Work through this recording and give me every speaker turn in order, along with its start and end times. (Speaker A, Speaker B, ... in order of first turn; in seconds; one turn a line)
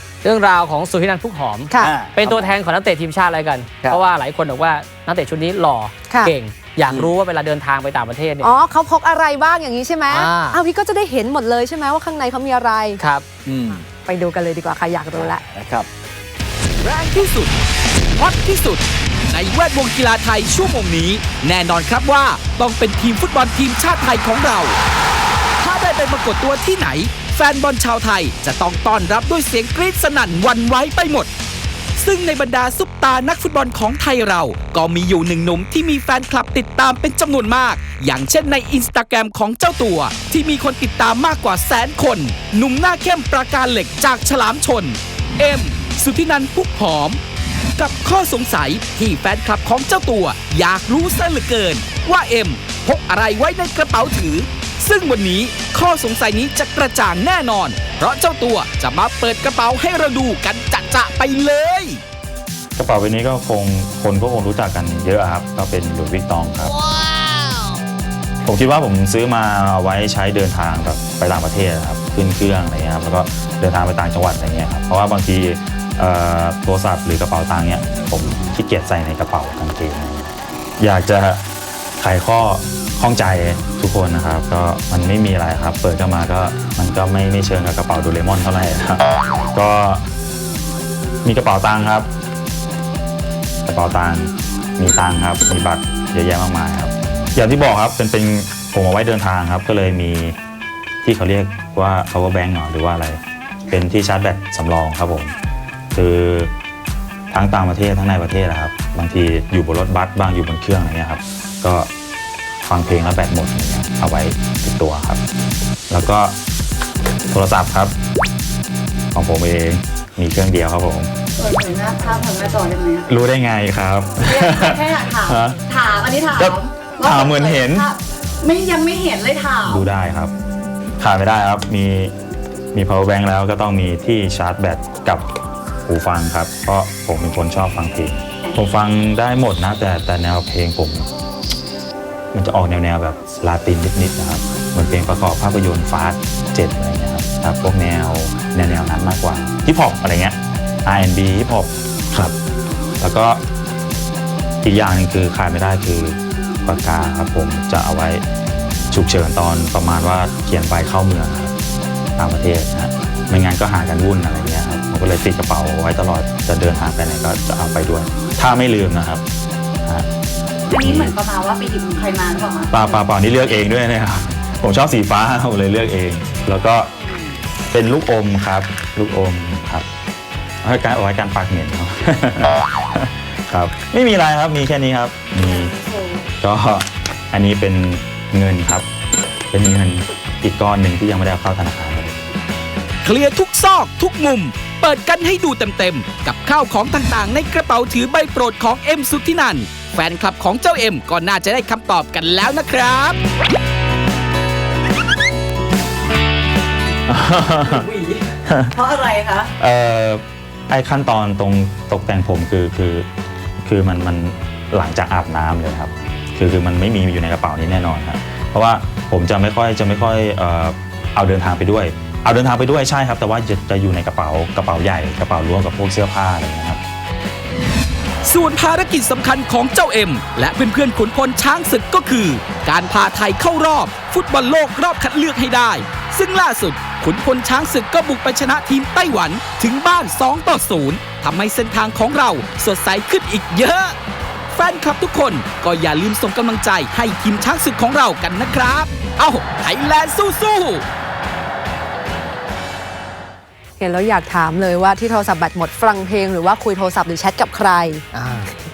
Speaker A: 0.2-8.5
Speaker B: 1.8-2.5
Speaker C: 6.1-6.3
Speaker B: 6.9-7.1
Speaker C: 8.4-13.0
Speaker A: 10.1-10.6
Speaker A: 13.0-13.4
Speaker B: 13.4-13.8
Speaker C: 14.0-15.4
Speaker B: 15.3-15.9
Speaker D: 16.8-17.5
Speaker D: 18.2-24.8
Speaker D: 25.6-31.3
Speaker D: 32.0-47.2
Speaker D: 47.8-62.0
Speaker E: 62.8-66.8
Speaker E: 68.4-81.4
Speaker E: 82.0-90.0
Speaker E: 91.2-92.1
Speaker E: 93.7-100.3
Speaker E: 101.0-105.3
Speaker E: 105.9-106.5
Speaker E: 107.3-111.9
Speaker E: 112.6-115.2
Speaker E: 115.9-116.3
Speaker E: 117.3-117.9
Speaker E: 119.1-121.1
Speaker F: 121.4-123.1
Speaker E: 123.1-125.6
Speaker F: 124.2-129.9
Speaker E: 126.3-127.9
Speaker E: 129.7-130.3
Speaker E: 131.0-132.1
Speaker E: 132.7-135.3
Speaker E: 135.8-141.1
Speaker E: 142.3-152.3
Speaker E: 153.0-153.4
Speaker E: 154.6-158.2
Speaker E: 158.9-161.5
Speaker E: 162.2-169.2
Speaker F: 170.7-172.9
Speaker E: 170.8-171.2
Speaker E: 172.7-176.9
Speaker F: 177.1-177.3
Speaker E: 177.7-179.9
Speaker E: 180.6-185.7
Speaker F: 185.4-186.3
Speaker E: 186.4-188.9
Speaker E: 189.5-192.2
Speaker D: 193.0-203.2
Speaker E: 207.1-207.9
Speaker F: 207.7-209.5
Speaker E: 208.4-208.7
Speaker E: 209.6-213.1
Speaker E: 213.6-226.8
Speaker D: 228.2-243.9
Speaker D: 244.5-250.8
Speaker C: 253.8-258.0
Speaker A: 258.1-258.5